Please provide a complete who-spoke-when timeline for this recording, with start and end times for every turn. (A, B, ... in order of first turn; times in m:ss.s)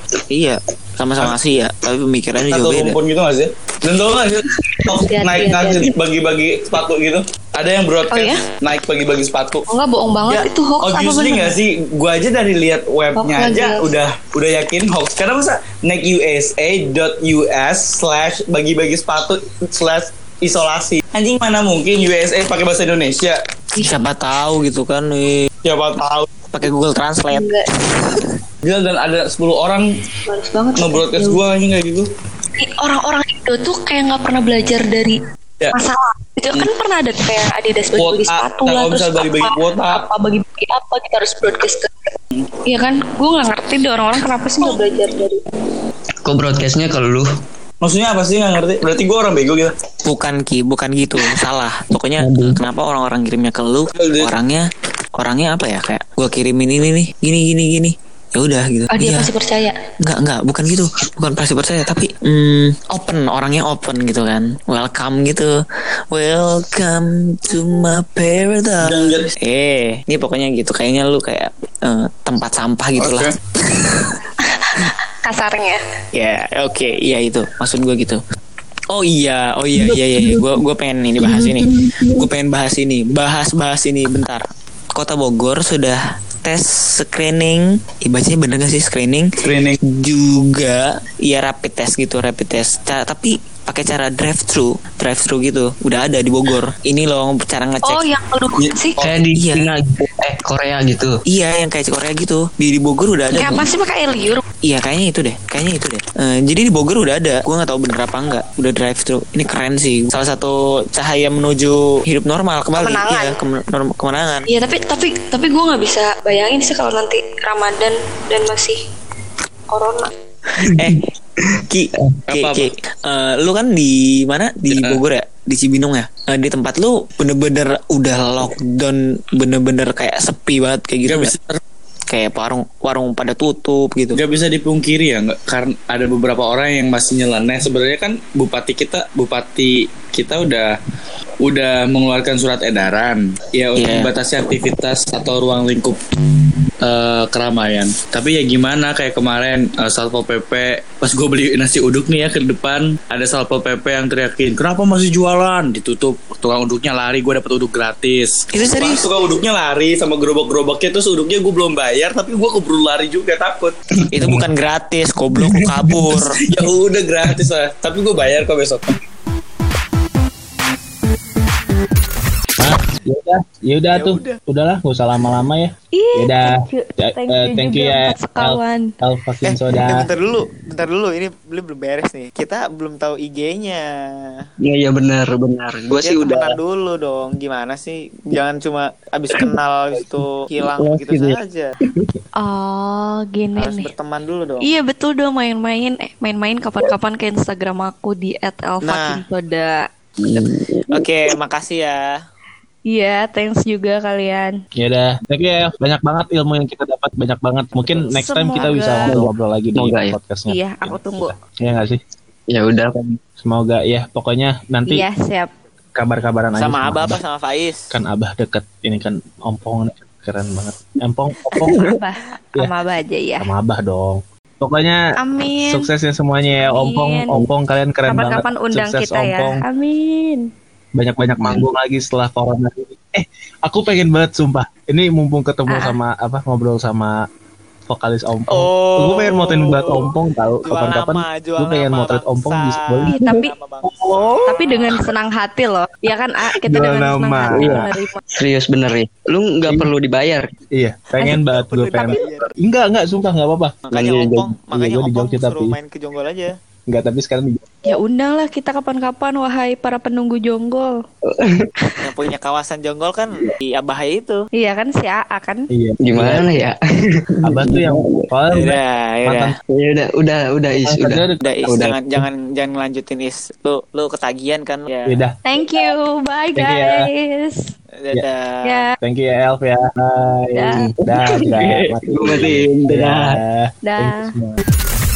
0:00.3-0:03.0 A
0:02.4-0:09.6 B
0:04.7-0:05.9 C
0:08.1-0:08.4 C
0:09.7-0:11.6 C
0:10.8-0:23.4 B
0:13.1-0:13.9 C
0:23.8-0:25.4 A
0:25.6-0:26.3 B
0:26.5-0:27.5 A
0:27.3-0:27.7 C
0:28.6-0:29.8 B
0:30.3-0:31.4 C
0:30.8-0:32.1 B
0:32.6-0:35.2 C
0:35.7-0:41.9 C
0:38.0-0:40.0 B
0:42.6-0:45.4 C
0:46.2-0:47.3 D
0:47.8-0:49.7 B
0:50.0-0:59.3 A
0:52.2-0:52.6 D
0:54.0-0:54.3 B
0:58.9-0:59.8 C
1:00.0-1:05.5 A
1:06.1-1:14.1 A
1:08.8-1:09.3 B
1:13.0-1:13.3 B
1:14.6-1:15.8 C
1:16.1-1:18.2 A
1:18.9-1:29.3 A
1:29.4-1:29.8 B
1:29.8-1:38.0 A
1:37.8-1:39.0 C
1:38.6-1:39.3 B
1:39.0-1:41.1 D
1:39.4-1:39.7 A
1:41.3-1:43.7 A
1:43.3-1:44.4 C
1:44.6-1:54.5 A
1:52.8-1:53.4 C
1:54.5-1:58.8 C
1:59.7-2:00.1 C
2:00.6-2:02.2 D
2:00.6-2:01.1 A
2:01.7-2:11.3 A
2:02.3-2:02.7 B
2:04.7-2:05.0 B
2:11.0-2:11.6 B
2:12.1-2:14.2 A
2:14.2-2:20.7 B
2:21.4-2:26.0 B
2:23.8-2:24.1 A
2:26.8-2:43.8 B
2:38.5-2:39.0 A
2:44.1-2:46.3 A
2:46.1-2:49.0 B
2:52.6-3:00.1 E
2:53.9-2:54.4 A
2:55.9-2:58.9 C
2:59.4-3:04.4 A
3:04.6-3:06.6 D
3:06.0-3:11.7 A
3:10.6-3:12.1 D
3:12.4-3:13.9 C
3:13.6-3:14.7 A
3:14.6-3:19.8 C
3:18.8-3:19.2 A
3:20.2-3:20.9 D
3:20.9-3:22.1 A
3:22.9-3:24.5 C
3:24.8-3:32.0 E
3:27.7-3:28.8 A
3:28.1-3:29.2 C
3:29.0-3:30.2 D
3:30.5-3:31.3 C
3:32.5-3:33.2 D
3:33.4-3:35.0 E
3:34.9-3:35.5 C
3:35.9-3:37.2 E
3:36.5-3:37.9 A
3:37.9-3:42.0 E
3:41.6-3:43.5 C
3:43.4-3:45.0 E
3:45.2-3:45.9 C
3:45.6-3:49.6 E
3:46.6-3:47.4 C
3:48.0-3:50.4 C
3:50.9-3:57.2 E
3:55.7-3:56.0 C
3:57.9-4:03.2 E
3:58.5-4:00.1 A
4:00.6-4:04.9 A
4:03.1-4:03.5 C
4:03.8-4:04.6 E
4:04.4-4:08.2 C
4:06.5-4:07.8 E
4:07.5-4:10.5 D
4:10.7-4:13.9 E
4:11.3-4:12.5 A
4:13.9-4:16.5 A
4:13.9-4:14.4 D
4:14.7-4:15.8 E
4:16.9-4:17.8 E
4:17.8-4:20.9 C
4:21.3-4:21.7 D
4:22.0-4:24.5 A
4:24.6-4:25.7 C
4:25.7-4:26.4 E
4:26.0-4:28.3 D
4:27.4-4:29.5 E
4:28.5-4:29.5 A
4:29.7-4:31.9 D
4:30.7-4:31.9 E
4:31.4-4:35.8 A
4:35.1-4:35.4 E
4:35.4-4:37.7 C
4:36.5-4:37.0 E
4:38.0-4:38.8 A
4:38.6-4:39.0 C
4:39.0-4:44.6 E
4:40.5-4:40.8 C
4:40.7-4:43.4 D
4:43.8-4:44.3 C